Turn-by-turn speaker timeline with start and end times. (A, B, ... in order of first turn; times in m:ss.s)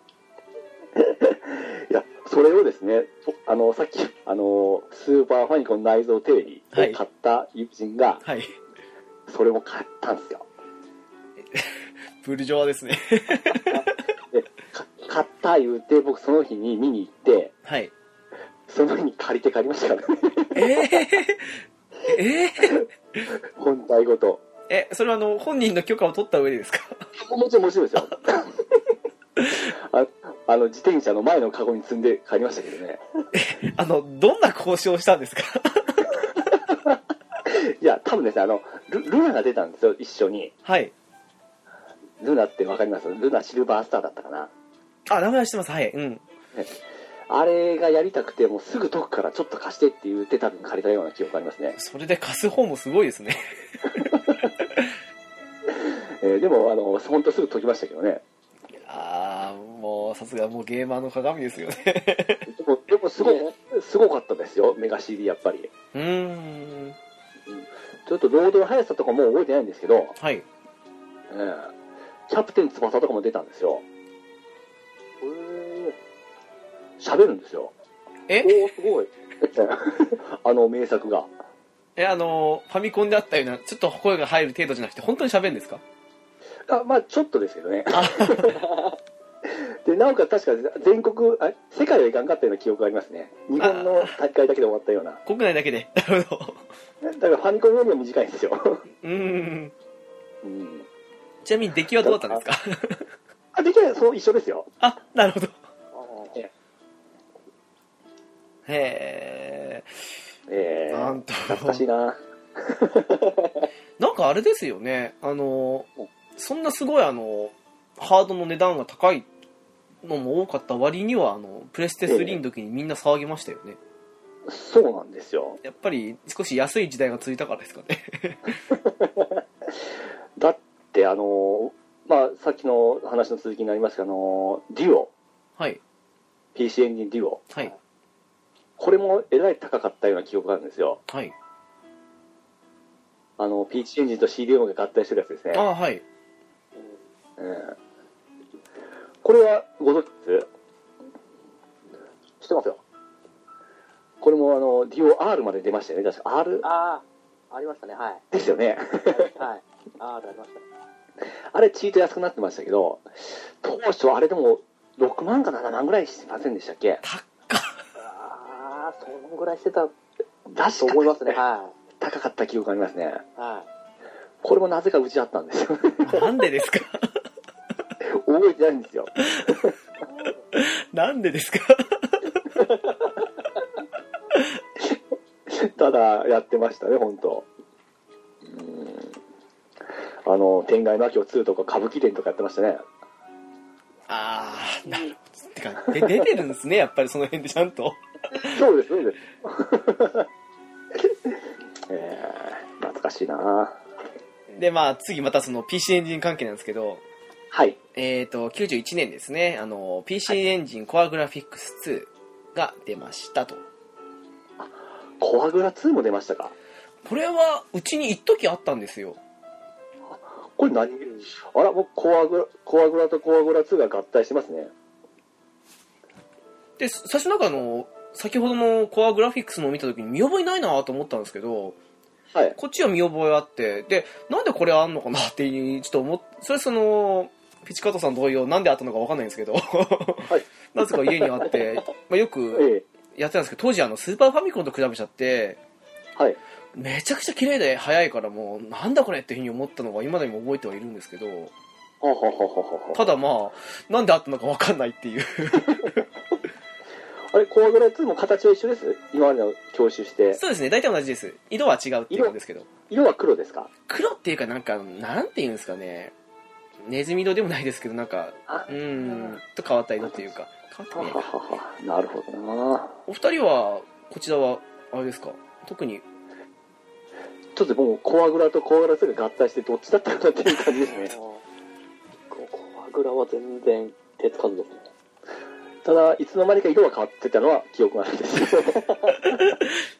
0:00.9-0:08.2 A
0:06.7-0:07.0 B
0:08.2-0:08.5 B
0:09.3-0:10.4 A
0:11.5-0:13.8 B
0:13.7-0:17.5 A
0:17.6-0:17.9 B
0:18.7-0:20.9 A
0:20.5-0:23.3 B
0:23.6-0:24.4 A
0:24.7-0:27.1 B
0:27.2-0:28.6 A
0:29.5-0:33.0 A
0:33.3-0:36.2 B
0:36.7-0:40.5 A
0:40.6-0:40.9 B
0:42.2-0:44.5 A
0:45.1-0:46.2 B
0:47.3-0:51.8 A
0:51.8-0:54.9 B
0:54.1-0:54.4 A
0:55.7-0:58.2 A
0:58.8-1:02.5 B
1:02.5-1:05.7 A
1:05.9-1:07.0 B
1:08.0-1:10.1 A
1:10.2-1:10.4 B
1:11.3-1:11.7 A
1:12.3-1:13.8 A
1:15.2-1:16.0 C
1:17.0-1:17.7 A
1:18.3-1:18.6 B
1:18.4-1:19.1 C
1:19.4-1:21.3 A
1:22.0-1:25.8 B
1:26.7-1:28.8 A
1:27.9-1:28.6 B
1:29.4-1:35.2 A
1:33.6-1:34.2 B
1:35.2-1:36.6 B
1:37.0-1:38.8 A
1:39.0-1:39.7 B
1:40.4-1:40.8 A
1:41.4-1:43.1 B
1:42.0-1:42.4 A
1:43.5-1:44.7 A
1:44.8-1:45.5 B
1:45.9-1:46.4 C
1:48.7-1:49.9 B
1:50.5-1:53.7 A
1:50.9-1:51.8 B
1:54.0-1:59.3 B
2:00.0-2:03.8 B
2:02.0-2:02.4 A
2:04.5-2:05.6 A
2:05.6-2:08.6 B
2:08.7-2:09.4 A
2:10.4-2:15.1 A
2:16.5-2:17.4 A
2:18.8-2:21.0 A
2:21.1-2:21.3 B
2:23.4-2:25.6 A
2:25.5-2:26.0 B
2:27.4-2:27.8 A
2:29.2-2:30.5 A
2:32.4-2:32.8 C
2:34.2-2:36.6 A
2:36.6-2:38.2 C
2:38.3-2:39.4 A
2:39.1-2:40.6 C
2:41.5-2:47.0 A
2:47.0-2:47.8 B
2:48.0-2:49.9 C
2:50.5-2:51.4 A
2:50.8-2:51.7 C
2:52.0-2:53.2 A
2:53.4-2:53.7 C
2:54.4-2:56.3 A
2:56.0-2:57.2 B
2:58.0-2:59.7 A
2:59.3-2:59.6 B
3:00.5-3:02.5 B
3:04.8-3:07.5 A
3:08.4-3:09.1 A
3:10.2-3:12.8 A
3:14.1-3:18.6 B
3:18.4-3:20.3 A
3:21.0-3:21.3 A
3:21.9-3:23.8 A
3:24.5-3:27.0 B
3:27.5-3:27.8 A
3:27.9-3:33.6 B
3:34.6-3:36.5 A
3:37.0-3:39.2 B
3:40.1-3:44.7 A
3:46.8-3:51.8 B
3:52.3-3:52.6 A
3:52.6-4:05.6 B
4:00.3-4:01.5 A
4:02.5-4:02.8 A
4:06.8-4:11.5 B
4:12.0-4:13.0 A
4:12.9-4:16.0 B
4:17.3-4:20.4 A
4:20.3-4:22.7 B
4:22.9-4:23.7 A
4:23.9-4:26.1 B
4:26.8-4:31.2 B
4:28.5-4:29.3 A
4:30.9-4:33.0 A
4:33.1-4:36.0 B
4:37.5-4:41.1 A
4:40.9-4:41.4 C
4:42.3-4:44.9 C
4:45.8-4:49.4 A
4:49.3-4:49.8 B